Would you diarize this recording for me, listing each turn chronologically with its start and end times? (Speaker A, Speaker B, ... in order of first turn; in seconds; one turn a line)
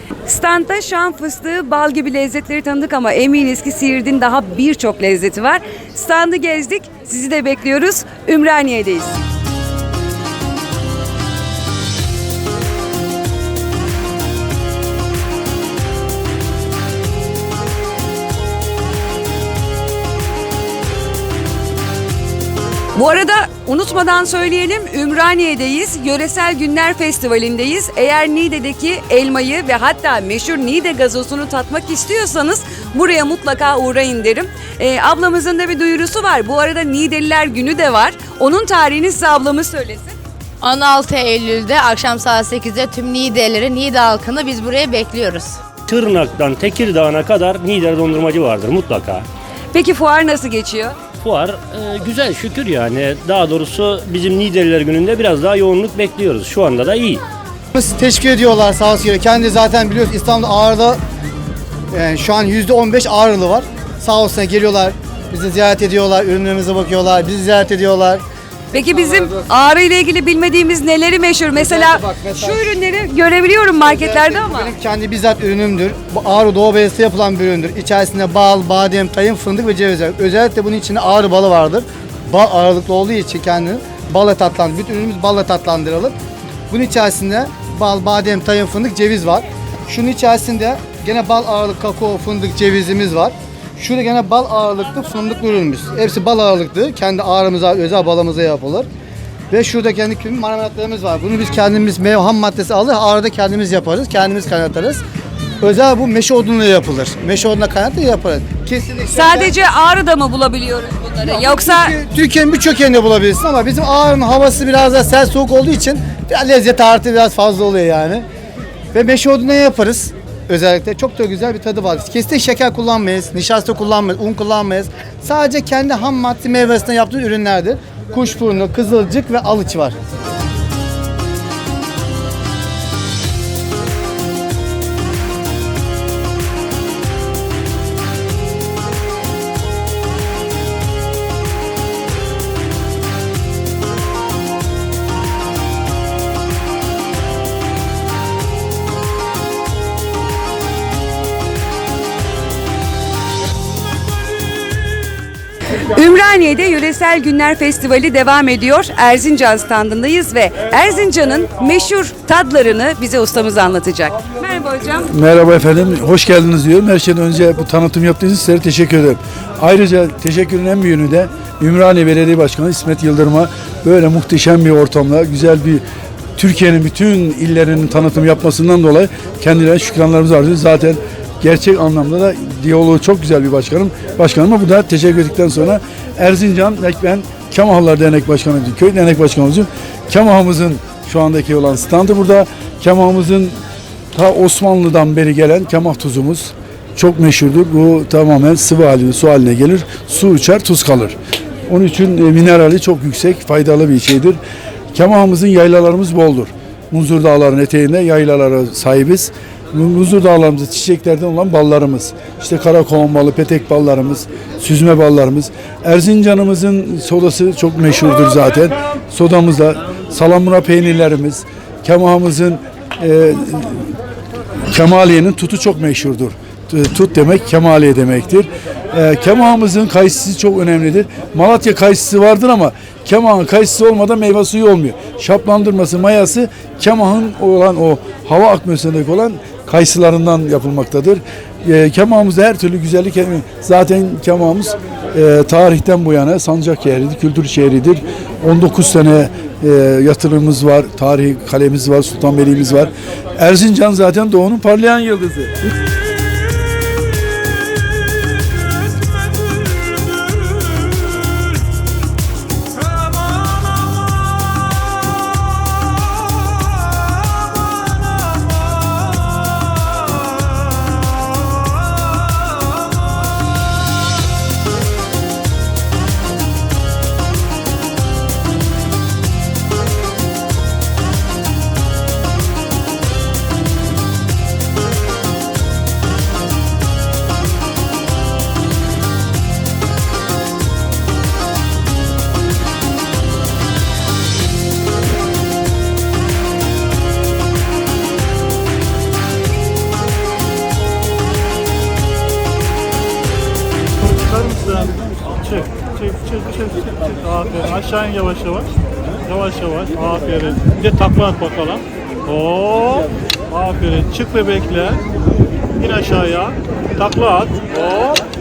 Speaker A: 0.2-9.2
Speaker A: 22.9-40.1
Speaker B: 40.6-45.6
Speaker C: 45.9-49.2
Speaker A: 49.7-51.0
Speaker C: 51.2-57.2
Speaker D: 57.7-61.0
Speaker D: 61.9-69.5
Speaker A: 68.7-74.7
Speaker D: 71.5-72.8
Speaker D: 73.8-86.1
Speaker D: 86.7-98.9
Speaker D: 99.5-105.0
Speaker D: 105.6-109.5
Speaker A: 109.1-111.9
Speaker D: 111.2-118.2
Speaker D: 118.9-129.9
Speaker A: 155.9-165.1
Speaker E: 165.1-175.8
Speaker E: 176.4-193.6
Speaker E: 194.1-201.2
Speaker E: 201.7-204.4
Speaker E: 204.9-223.9
Speaker E: 224.7-255.5
Speaker F: 304.2-308.7
Speaker F: 309.3-315.0
Speaker F: 315.8-318.1